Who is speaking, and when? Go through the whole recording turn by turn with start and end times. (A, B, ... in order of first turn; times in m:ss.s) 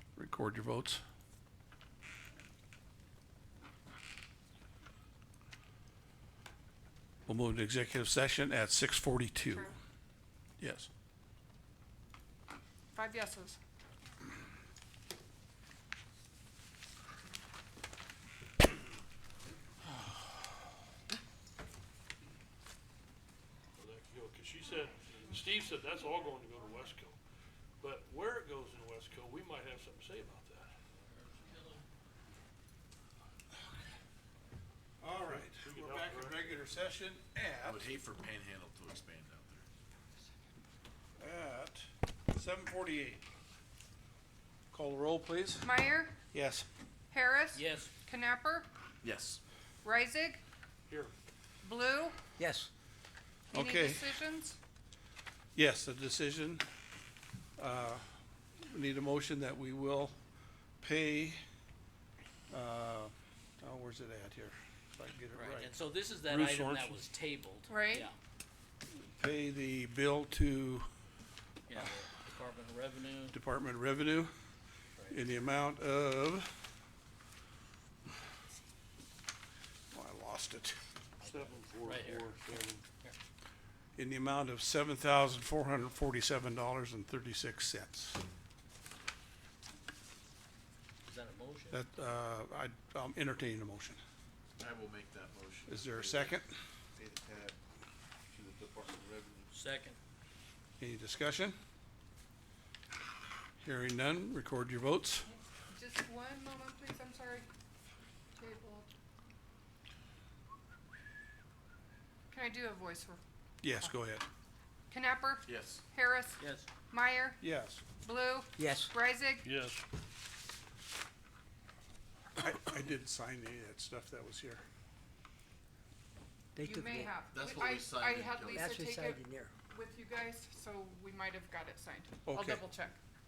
0:00.2-0:01.0 A
0:07.3-0:09.7 A
0:10.6-0:10.9 A
0:12.9-0:13.6 B
0:23.8-0:27.2 C
0:27.8-0:30.8 C
0:31.1-0:31.8 D
0:35.0-0:37.9 A
0:35.2-0:36.5 C
0:37.7-0:39.7 E
0:41.2-0:43.2 A
0:44.7-0:45.7 A
0:45.6-0:46.2 B
0:46.3-0:46.7 A
0:47.1-0:48.7 B
0:47.5-0:47.9 D
0:49.0-0:49.4 E
0:49.8-0:50.4 B
0:51.6-0:52.2 B
0:52.4-0:52.7 F
0:53.5-0:54.1 A
0:53.5-0:54.6 B
0:55.6-0:56.6 A
0:57.6-0:58.0 A
0:58.6-1:00.2 A
1:00.8-1:01.4 A
1:02.5-1:05.7 A
1:05.4-1:08.2 D
1:06.3-1:07.1 C
1:07.7-1:08.1 B
1:08.9-1:10.9 A
1:11.7-1:13.4 D
1:13.3-1:14.3 A
1:15.1-1:16.5 A
1:19.9-1:20.8 A
1:21.2-1:22.5 D
1:21.2-1:22.8 C
1:24.0-1:28.2 A
1:31.1-1:31.8 D
1:31.7-1:34.0 A
1:34.6-1:36.4 E
1:35.7-1:36.5 A
1:37.0-1:37.6 E
1:38.3-1:39.5 E
1:39.5-1:40.0 D
1:40.8-1:41.6 A
1:43.6-1:45.3 A
1:45.3-1:47.5 B
1:48.4-1:48.9 B
1:52.3-1:53.2 B
1:53.6-1:54.2 A
1:54.9-1:57.4 B
1:55.4-1:55.8 E
1:56.4-1:56.7 D
1:57.4-1:57.8 A
1:57.9-1:59.5 B
1:58.6-1:58.9 F
1:59.4-1:59.8 C
2:02.4-2:04.6 A
2:06.6-2:07.1 F
2:06.6-2:13.0 B
2:07.3-2:08.7 E
2:08.5-2:09.6 F
2:12.3-2:12.6 A